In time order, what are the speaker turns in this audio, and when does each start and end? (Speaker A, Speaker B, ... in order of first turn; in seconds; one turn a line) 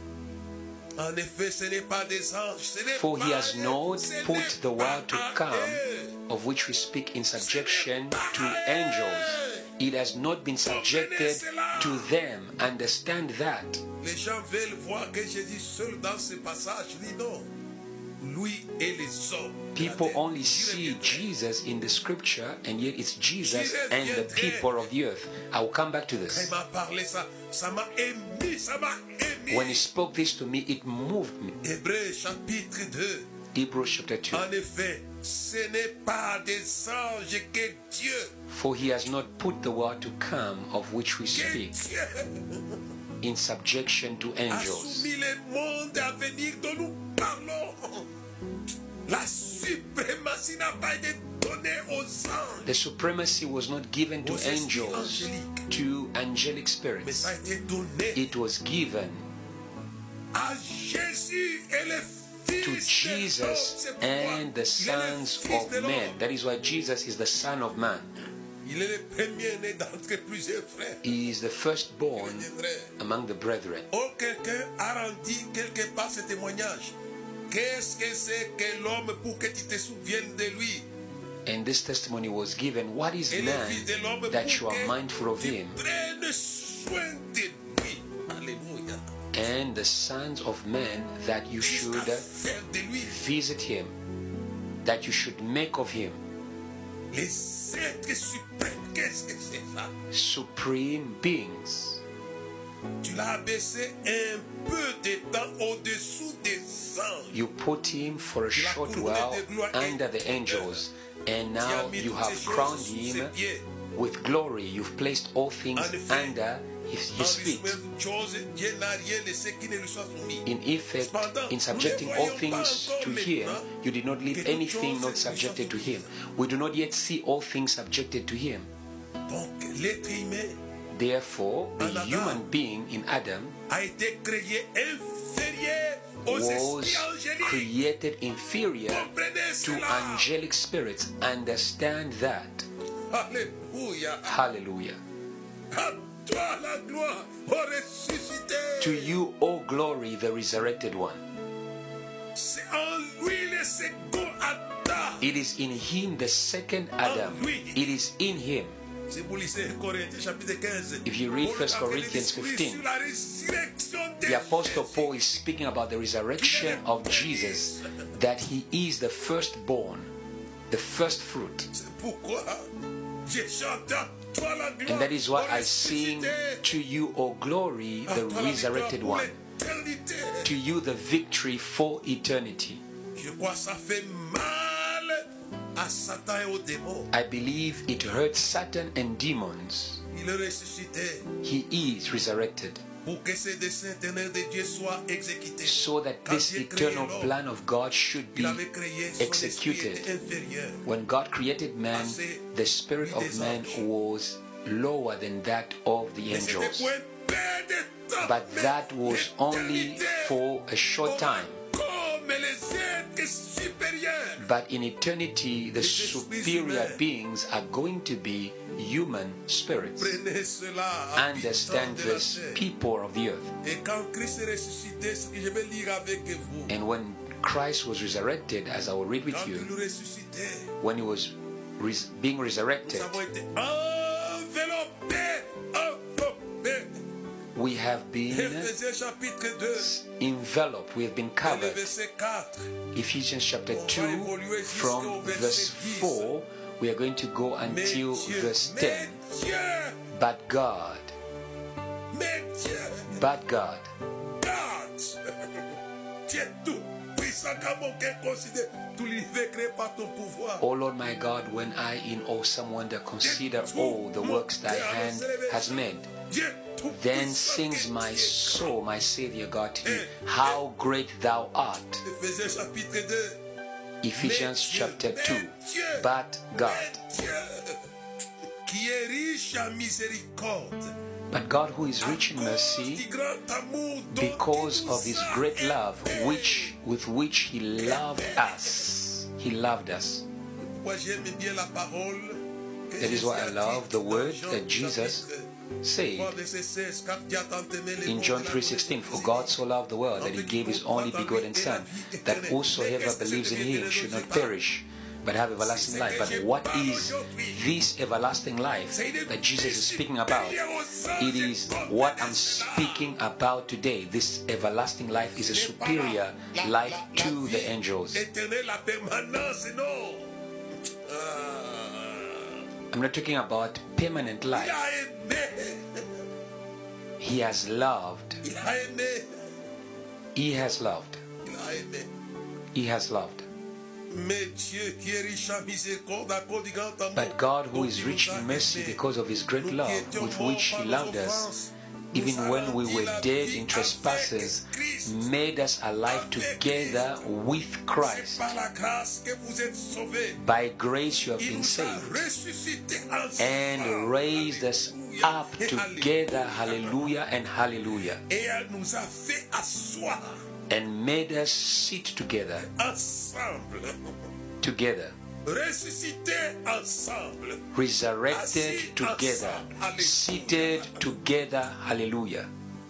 Speaker A: 1.0-6.2
Speaker B: 2.9-13.8
Speaker A: 7.4-9.7
Speaker A: 10.7-12.1
Speaker A: 14.0-17.5
Speaker A: 18.2-21.3
Speaker B: 19.8-26.5
Speaker A: 23.4-24.9
Speaker A: 26.3-29.9
Speaker B: 29.5-31.6
Speaker A: 31.6-33.3
Speaker B: 33.5-34.5
Speaker A: 34.3-38.3
Speaker B: 38.5-41.8
Speaker A: 41.3-42.8
Speaker B: 43.2-45.1
Speaker A: 44.5-48.1
Speaker A: 49.1-52.8
Speaker B: 52.6-57.3
Speaker A: 54.2-55.6
Speaker A: 57.0-58.3
Speaker B: 58.1-59.3
Speaker A: 60.3-66.2
Speaker B: 62.6-68.1
Speaker A: 68.6-71.0
Speaker B: 71.0-73.9
Speaker A: 72.2-72.9
Speaker A: 73.9-77.0
Speaker A: 77.5-80.9
Speaker B: 81.5-85.8
Speaker A: 83.3-89.1
Speaker B: 89.3-92.3
Speaker A: 91.6-93.2
Speaker B: 93.0-93.9
Speaker B: 94.8-96.2
Speaker A: 97.1-99.9
Speaker B: 100.1-102.0
Speaker A: 103.0-107.4
Speaker B: 107.3-113.3
Speaker A: 108.5-110.8
Speaker A: 111.6-113.7
Speaker B: 114.0-117.8
Speaker A: 115.8-116.4
Speaker A: 117.2-120.5
Speaker B: 120.5-128.7
Speaker A: 121.0-123.7
Speaker A: 124.3-126.1
Speaker A: 129.3-130.6
Speaker B: 130.9-133.6
Speaker A: 131.8-132.4
Speaker A: 133.7-137.7
Speaker B: 136.3-139.1
Speaker A: 138.9-140.3
Speaker B: 139.6-142.7
Speaker A: 143.1-144.4
Speaker B: 144.2-145.0
Speaker A: 145.7-149.2
Speaker B: 148.8-151.2
Speaker A: 152.3-155.3
Speaker B: 155.2-158.8
Speaker A: 157.0-157.9
Speaker A: 159.1-165.2
Speaker B: 161.1-162.8
Speaker B: 164.2-170.1
Speaker A: 166.4-167.9
Speaker B: 170.7-171.7
Speaker A: 171.7-172.7
Speaker A: 173.2-176.7
Speaker B: 174.9-179.4
Speaker A: 178.1-180.6
Speaker B: 180.4-182.8
Speaker A: 183.2-187.1
Speaker B: 187.1-190.0
Speaker A: 190.1-191.3
Speaker B: 191.4-192.8
Speaker A: 193.1-197.3
Speaker B: 195.6-198.6
Speaker A: 198.3-200.8
Speaker B: 199.2-200.1
Speaker B: 200.8-206.9
Speaker A: 201.9-203.9
Speaker A: 206.3-210.4
Speaker B: 208.2-211.6
Speaker A: 211.0-214.5
Speaker B: 214.4-220.2
Speaker A: 215.8-217.0
Speaker A: 220.0-222.6
Speaker B: 221.2-223.5
Speaker A: 223.6-226.8
Speaker B: 226.7-229.7
Speaker A: 229.3-230.7
Speaker B: 230.8-233.2
Speaker A: 232.8-237.0
Speaker B: 237.6-238.7
Speaker A: 238.3-239.9
Speaker B: 239.8-241.9
Speaker A: 241.4-242.7
Speaker B: 242.9-249.2
Speaker A: 243.7-246.3
Speaker A: 247.6-250.0
Speaker B: 250.1-251.1
Speaker A: 252.1-253.2
Speaker B: 253.1-253.9
Speaker A: 254.4-260.6
Speaker B: 260.6-266.1
Speaker A: 263.2-268.8
Speaker B: 266.9-272.0
Speaker A: 269.8-270.6
Speaker A: 272.0-273.4
Speaker B: 274.0-277.0
Speaker A: 274.1-277.9
Speaker A: 278.7-280.9
Speaker B: 281.3-283.0
Speaker A: 282.0-286.8
Speaker B: 284.1-290.2
Speaker A: 287.8-288.9
Speaker A: 290.6-295.5
Speaker B: 293.0-295.3
Speaker B: 295.8-296.4
Speaker A: 296.1-299.6
Speaker B: 298.1-310.6
Speaker A: 300.2-304.6
Speaker A: 305.6-307.7
Speaker A: 308.9-313.1
Speaker B: 311.2-318.2
Speaker A: 315.4-320.4
Speaker A: 320.9-322.6
Speaker B: 322.9-324.8
Speaker A: 324.5-326.1
Speaker B: 327.2-328.4
Speaker A: 328.4-329.5
Speaker B: 330.4-331.2
Speaker A: 331.4-332.1
Speaker B: 332.7-333.5
Speaker A: 334.1-339.0
Speaker B: 337.1-341.5
Speaker A: 339.6-345.3
Speaker B: 342.1-348.5
Speaker A: 346.1-347.2
Speaker A: 348.0-350.4
Speaker B: 350.4-352.3
Speaker A: 351.4-357.1
Speaker B: 353.4-358.2
Speaker A: 358.3-360.4
Speaker B: 360.7-362.7
Speaker A: 362.6-364.1
Speaker B: 364.6-365.1
Speaker A: 365.4-367.7
Speaker B: 367.7-372.5
Speaker A: 368.3-371.1